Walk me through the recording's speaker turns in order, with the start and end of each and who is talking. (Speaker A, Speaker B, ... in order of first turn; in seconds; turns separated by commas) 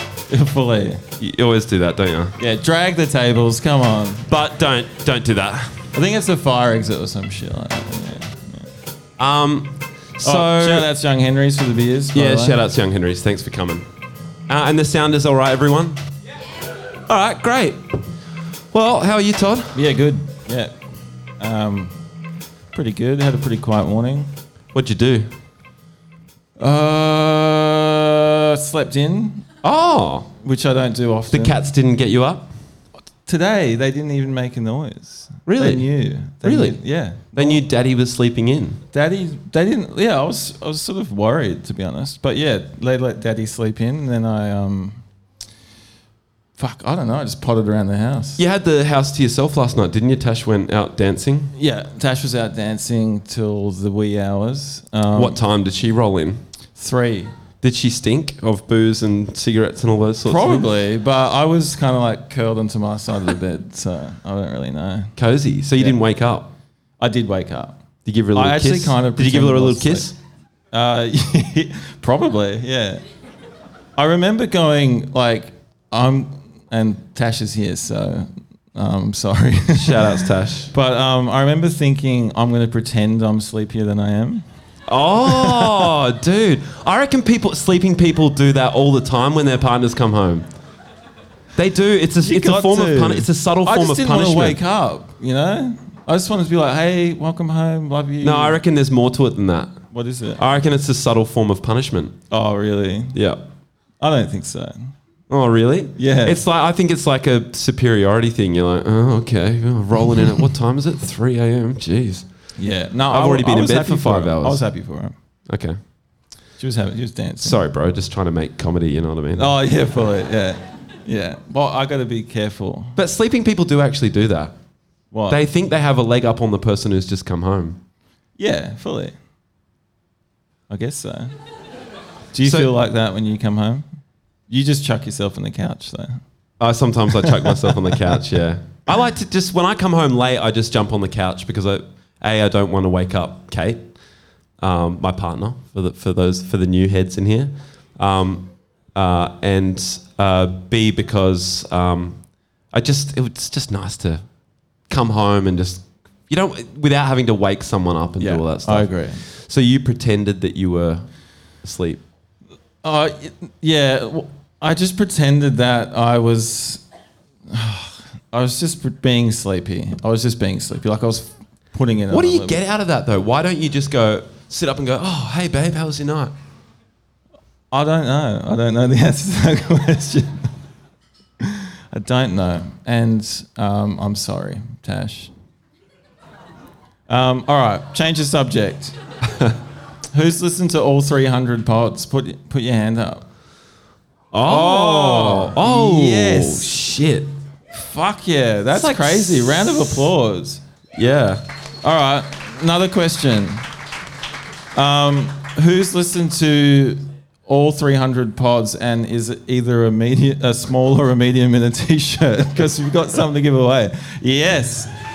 Speaker A: 0.3-1.0, Speaker B: 1.2-2.4, Speaker A: 2.4-4.3, Speaker B: 4.3-5.8, Speaker A: 5.9-8.7, Speaker B: 9.2-10.9, Speaker A: 10.2-12.6, Speaker B: 12.1-13.9, Speaker B: 14.5-16.0, Speaker B: 17.1-18.0, Speaker B: 18.7-19.8, Speaker A: 19.7-20.8, Speaker A: 21.4-22.0, Speaker A: 22.7-24.3, Speaker B: 24.7-25.3, Speaker A: 26.6-29.5, Speaker B: 29.6-30.3, Speaker A: 30.4-31.6, Speaker B: 31.3-32.5, Speaker A: 33.2-37.6, Speaker B: 35.5-36.8, Speaker B: 37.3-38.8, Speaker A: 38.9-45.0, Speaker A: 46.6-48.4, Speaker B: 48.4-51.5, Speaker A: 51.5-55.4, Speaker B: 55.1-56.4, Speaker A: 56.8-57.3, Speaker B: 57.6-60.7, Speaker A: 60.2-65.2, Speaker B: 65.2-66.5, Speaker A: 67.0-67.8, Speaker B: 68.0-70.2, Speaker A: 68.3-70.1, Speaker A: 70.7-73.0, Speaker A: 74.0-84.4, Speaker B: 79.7-80.7, Speaker B: 84.9-90.5, Speaker A: 85.5-85.7, Speaker B: 91.6-94.6, Speaker A: 92.2-98.6, Speaker B: 98.2-99.7, Speaker A: 99.9-100.4, Speaker B: 100.4-102.2, Speaker A: 102.3-103.2, Speaker B: 103.1-103.4, Speaker A: 104.0-104.9, Speaker B: 105.3-112.3, Speaker A: 106.0-106.4, Speaker A: 112.6-115.2, Speaker B: 113.1-114.6, Speaker B: 115.5-115.8, Speaker A: 116.6-117.6, Speaker B: 117.4-119.5, Speaker A: 119.3-123.0, Speaker B: 123.0-124.5, Speaker A: 125.1-125.4, Speaker B: 125.3-127.8, Speaker A: 128.4-129.2, Speaker A: 130.7-131.3, Speaker A: 132.3-133.9, Speaker B: 132.4-132.7, Speaker A: 134.5-136.2, Speaker B: 136.6-143.9, Speaker A: 137.2-138.1, Speaker B: 144.6-152.2, Speaker B: 152.7-154.2, Speaker B: 154.9-161.1, Speaker A: 158.2-159.2, Speaker B: 161.6-162.0, Speaker A: 162.8-166.8, Speaker A: 167.5-172.6, Speaker B: 172.1-176.3, Speaker A: 177.7-180.5, Speaker A: 181.4-185.3, Speaker A: 187.1-189.0, Speaker A: 190.1-193.2, Speaker B: 194.3-197.3, Speaker A: 194.4-196.8, Speaker A: 197.7-200.6, Speaker B: 198.7-199.8, Speaker B: 200.9-201.4, Speaker A: 201.8-203.6, Speaker A: 204.8-214.9